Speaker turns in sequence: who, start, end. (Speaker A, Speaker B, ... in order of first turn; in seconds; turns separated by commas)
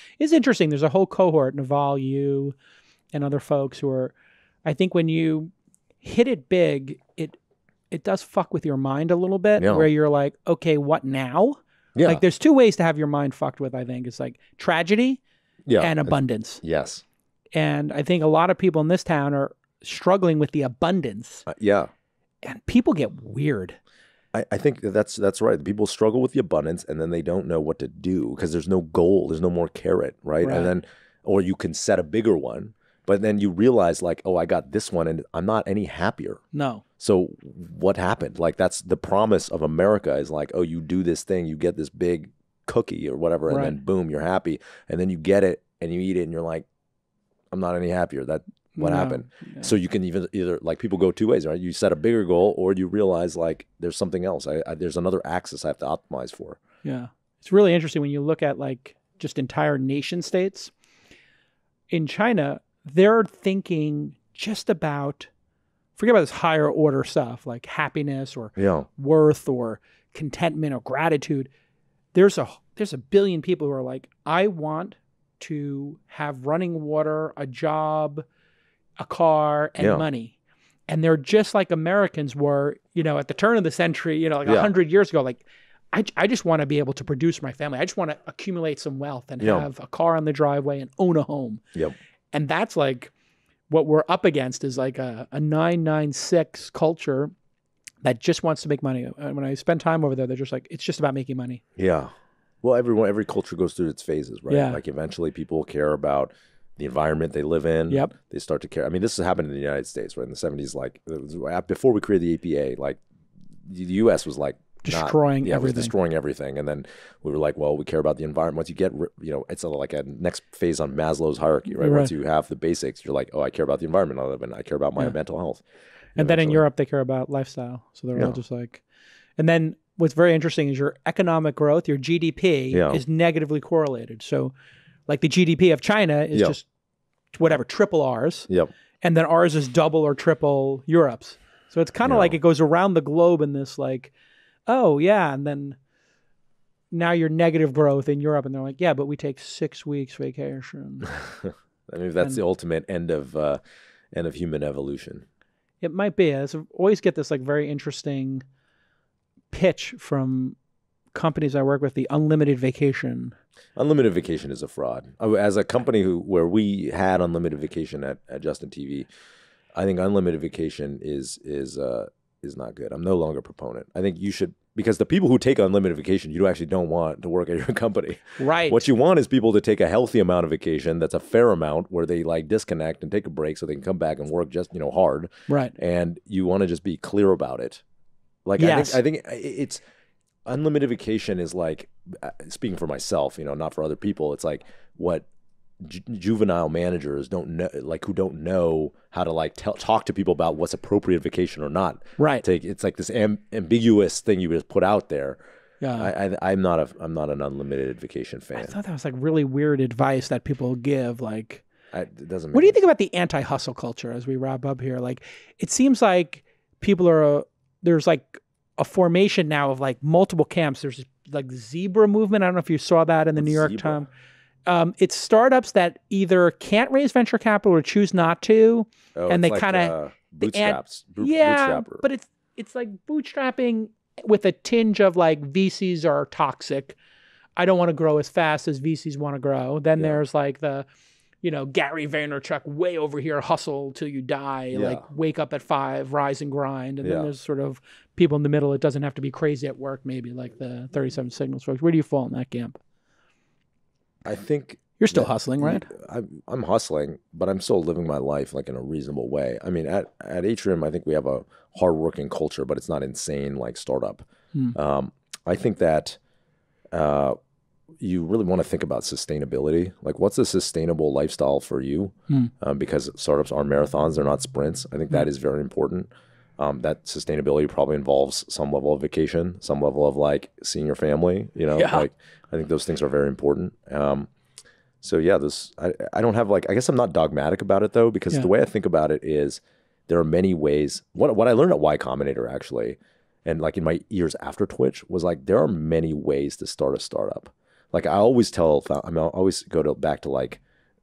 Speaker A: 0.2-2.5, Speaker A: 3.1-4.1, Speaker A: 4.7-5.5, Speaker A: 6.0-7.4, Speaker A: 7.9-15.2, Speaker B: 9.6-9.9, Speaker B: 11.9-12.2, Speaker B: 15.7-17.0, Speaker A: 15.8-16.6, Speaker A: 17.6-21.5, Speaker B: 21.5-21.9, Speaker A: 22.4-23.8, Speaker B: 24.3-36.4, Speaker A: 30.4-30.7, Speaker A: 36.5-36.8, Speaker B: 37.0-46.6, Speaker A: 43.5-43.8, Speaker B: 47.5-56.6, Speaker A: 48.7-49.7, Speaker A: 56.8-60.7, Speaker A: 61.9-65.3, Speaker A: 66.0-71.5, Speaker B: 68.6-68.9, Speaker A: 72.1-78.2, Speaker A: 79.0-80.4, Speaker B: 79.8-80.1, Speaker A: 80.9-91.6, Speaker B: 84.5-84.7, Speaker B: 89.4-89.7, Speaker A: 92.3-93.1, Speaker A: 93.7-97.3, Speaker A: 98.0-101.6, Speaker B: 101.8-102.1, Speaker B: 102.6-113.0, Speaker A: 104.5-104.8, Speaker B: 113.6-125.6, Speaker A: 114.8-115.9, Speaker A: 121.8-122.1, Speaker B: 126.2-126.6, Speaker A: 126.2-128.8, Speaker A: 129.4-134.5, Speaker B: 132.7-133.0, Speaker A: 135.1-136.7, Speaker A: 137.3-138.5, Speaker A: 139.0-144.1, Speaker B: 142.0-142.3, Speaker A: 144.7-145.8, Speaker A: 146.9-151.1, Speaker B: 151.4-153.6, Speaker B: 154.1-155.2, Speaker A: 155.8-158.4, Speaker A: 159.5-160.6, Speaker A: 161.1-163.3, Speaker B: 163.8-169.1, Speaker B: 169.8-187.8, Speaker A: 178.4-178.8, Speaker A: 185.5-185.7, Speaker B: 188.4-189.8, Speaker A: 188.6-189.0, Speaker B: 190.4-195.3, Speaker B: 195.8-205.4, Speaker A: 202.2-202.4, Speaker A: 205.8-206.1, Speaker B: 205.9-208.8, Speaker A: 208.6-211.6, Speaker B: 211.9-212.8, Speaker A: 212.5-224.1, Speaker B: 223.3-224.0, Speaker A: 224.7-237.0, Speaker B: 229.2-232.0, Speaker A: 237.6-240.9, Speaker A: 241.4-252.8, Speaker B: 244.7-245.1, Speaker B: 247.0-247.3, Speaker B: 254.2-266.2, Speaker A: 255.0-255.9, Speaker B: 266.9-267.4, Speaker B: 268.0-284.3, Speaker A: 281.8-282.1, Speaker B: 285.0-300.6